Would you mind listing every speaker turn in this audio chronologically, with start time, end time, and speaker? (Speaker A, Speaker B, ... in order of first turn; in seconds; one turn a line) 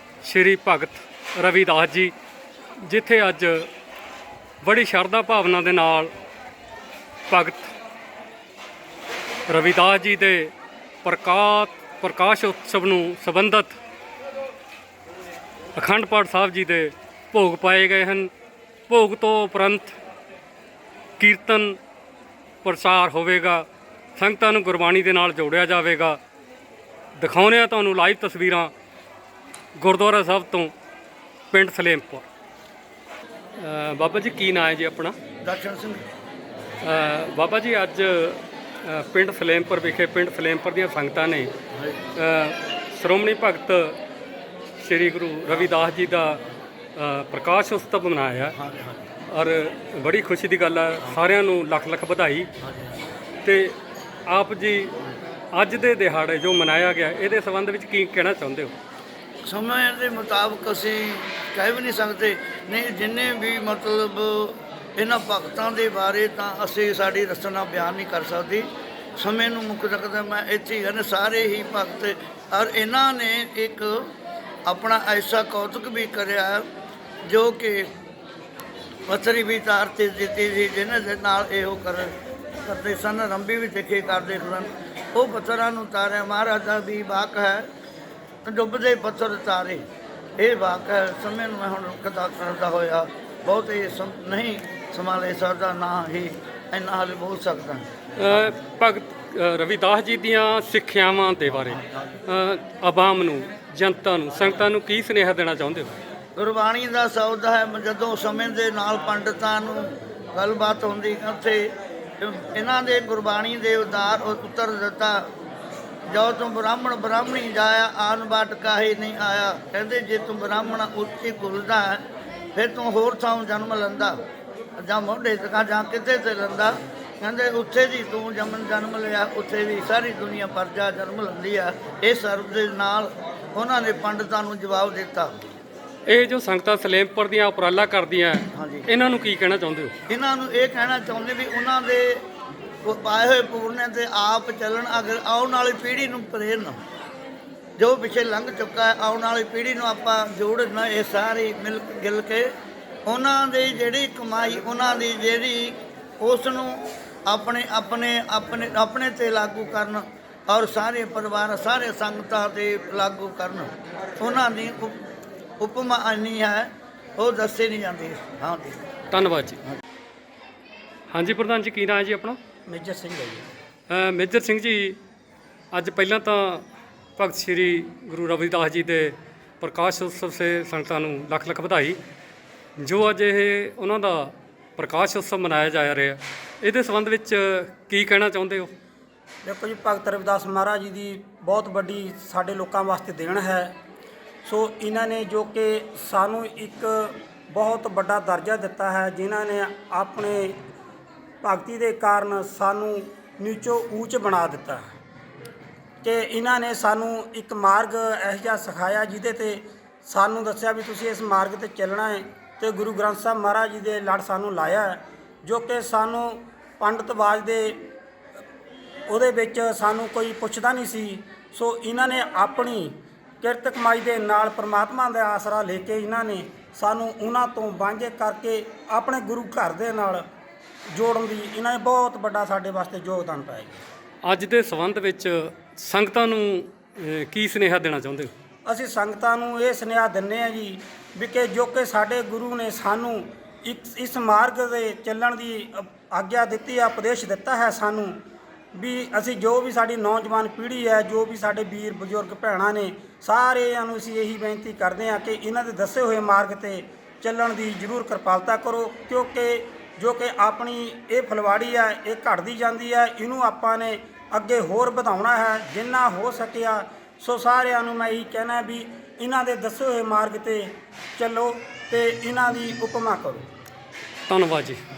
Speaker A: 0.2-2.1
Speaker A: 2.8-3.7
Speaker A: 4.6-6.1
Speaker A: 7.3-7.7
Speaker A: 9.5-10.5
Speaker A: 11.0-13.8
Speaker A: 15.8-18.3
Speaker A: 18.9-20.0
Speaker A: 21.2-21.8
Speaker A: 22.6-26.2
Speaker A: 27.2-28.7
Speaker A: 29.8-30.7
Speaker A: 31.5-32.3
Speaker A: 33.6-35.2
Speaker B: 35.4-36.0
Speaker A: 36.8-41.5
Speaker A: 42.2-44.0
Speaker A: 44.8-46.4
Speaker A: 47.0-48.6
Speaker B: 48.6-49.1
Speaker A: 49.3-52.5
Speaker A: 53.4-55.0
Speaker A: 55.5-58.7
Speaker B: 59.5-74.1
Speaker B: 74.7-76.7
Speaker B: 77.2-77.9
Speaker B: 79.1-82.1
Speaker B: 82.6-87.7
Speaker B: 88.5-89.9
Speaker B: 90.4-97.9
Speaker A: 98.2-105.9
Speaker B: 106.4-115.3
Speaker B: 116.1-122.0
Speaker B: 122.5-124.2
Speaker B: 124.8-135.3
Speaker A: 136.1-139.9
Speaker B: 138.5-138.9
Speaker B: 140.1-142.2
Speaker B: 142.8-146.8
Speaker B: 147.8-152.5
Speaker B: 153.1-165.0
Speaker B: 165.6-168.8
Speaker A: 169.1-169.6
Speaker A: 171.1-172.4
Speaker C: 172.7-173.5
Speaker A: 173.9-175.0
Speaker A: 175.7-176.7
Speaker A: 177.2-182.0
Speaker A: 182.8-188.7
Speaker C: 189.4-193.8
Speaker C: 194.4-200.6
Speaker C: 201.4-204.9
Speaker C: 206.0-217.9
Speaker C: 219.1-230.2
Speaker C: 230.9-233.8
Speaker A: 234.2-238.3
Speaker C: 238.7-248.2
Speaker C: 248.7-273.5
Speaker A: 274.3-274.8